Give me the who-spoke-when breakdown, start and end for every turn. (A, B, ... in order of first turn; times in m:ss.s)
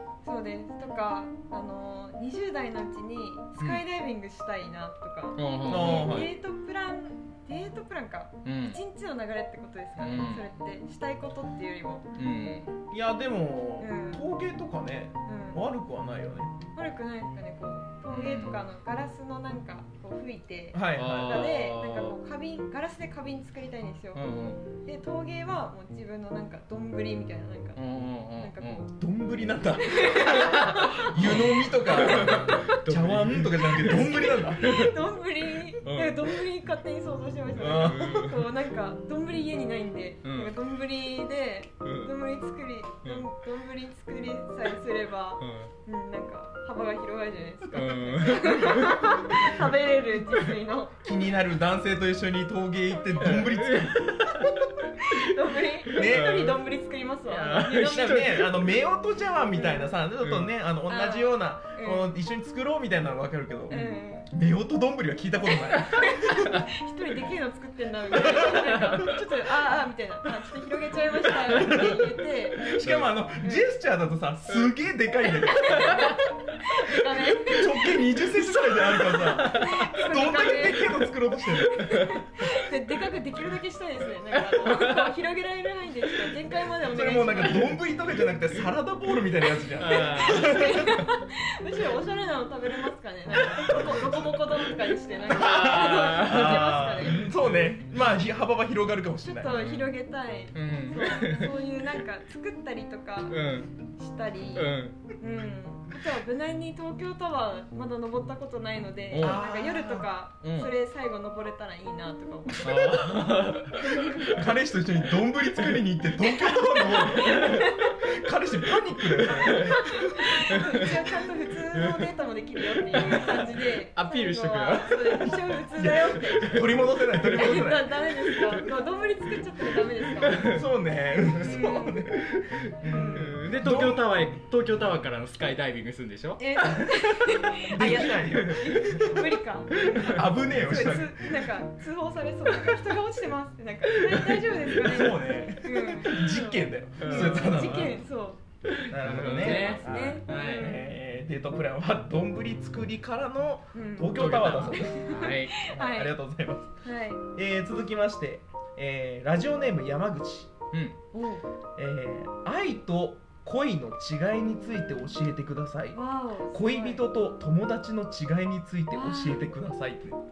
0:00.2-0:12.2 A
0:05.4-0:06.3 B
0:05.6-0:06.3 C
0:08.4-0:08.8 B
0:10.0-0:10.5 B
0:12.2-0:12.7 B
0:12.9-0:16.5 C
0:13.8-0:14.2 A
0:15.2-0:15.6 A
0:16.7-0:24.2 A
0:18.1-0:18.6 B
0:20.7-0:21.5 C
0:20.9-0:22.2 B
0:24.1-0:24.6 B
0:24.8-0:27.8 A
0:27.8-0:28.8 B
0:28.4-0:28.9 A
0:28.9-0:34.7 C
0:29.8-0:32.8 A
0:30.2-0:34.9 B
0:34.3-0:51.0 A
0:35.8-0:36.4 B
0:37.6-0:38.3 C
0:37.8-0:38.4 B
0:40.2-0:40.5 B
0:41.8-0:42.1 B
0:45.4-0:45.7 B
0:47.7-0:49.6 B
0:51.0-0:54.7 C
0:53.2-0:55.2 B
0:55.0-0:58.3 A
0:55.9-0:56.6 C
0:55.9-0:56.6 B
0:57.3-0:58.7 B
0:57.7-1:06.6 C
0:59.5-0:59.9 A
1:00.2-1:00.5 B
1:00.9-1:02.1 A
1:03.7-1:04.3 A
1:05.7-1:12.8 A
1:08.1-1:09.1 C
1:08.6-1:09.1 B
1:11.6-1:12.0 C
1:12.6-1:16.2 C
1:12.8-1:13.1 B
1:13.4-1:13.7 A
1:15.2-1:21.1 A
1:15.7-1:16.2 B
1:17.0-1:22.0 C
1:18.3-1:19.9 B
1:21.7-1:27.8 A
1:21.8-1:22.2 B
1:24.4-1:25.1 B
1:26.8-1:30.9 C
1:29.8-1:31.1 B
1:29.8-1:37.3 A
1:33.4-1:37.3 B
1:33.7-1:34.2 C
1:35.3-1:39.6 C
1:39.3-1:54.3 A
1:39.4-1:39.9 B
1:40.5-1:41.7 B
1:43.3-1:43.7 B
1:44.5-1:45.0 B
1:49.1-1:49.4 B
1:49.1-1:50.1 C
1:50.4-1:50.7 B
1:52.6-1:54.5 B
1:54.2-2:00.2 C
1:56.2-1:58.0 A
1:57.1-1:57.6 B
1:59.2-2:10.5 A
1:59.3-2:01.0 B
2:02.9-2:06.8 B
2:05.8-2:08.0 C
2:08.3-2:08.6 B
2:10.2-2:10.6 B
2:10.3-2:14.1 C
2:11.4-2:12.1 A
2:12.4-2:19.0 B
2:12.8-2:13.4 A
2:16.4-2:28.4 A
2:17.7-2:19.2 C
2:19.8-2:21.4 C
2:24.0-2:24.4 B
2:24.7-2:28.0 C
2:27.0-2:27.9 B
2:28.7-2:30.8 B
2:28.9-2:36.7 C
2:29.1-2:31.0 A
2:33.7-2:36.1 A
2:34.1-2:35.5 B
2:36.8-2:37.2 A
2:37.3-2:40.6 C
2:41.1-2:41.4 A
2:41.8-2:46.0 C
2:45.9-2:47.0 A
2:46.5-2:50.2 C
2:48.9-2:49.5 A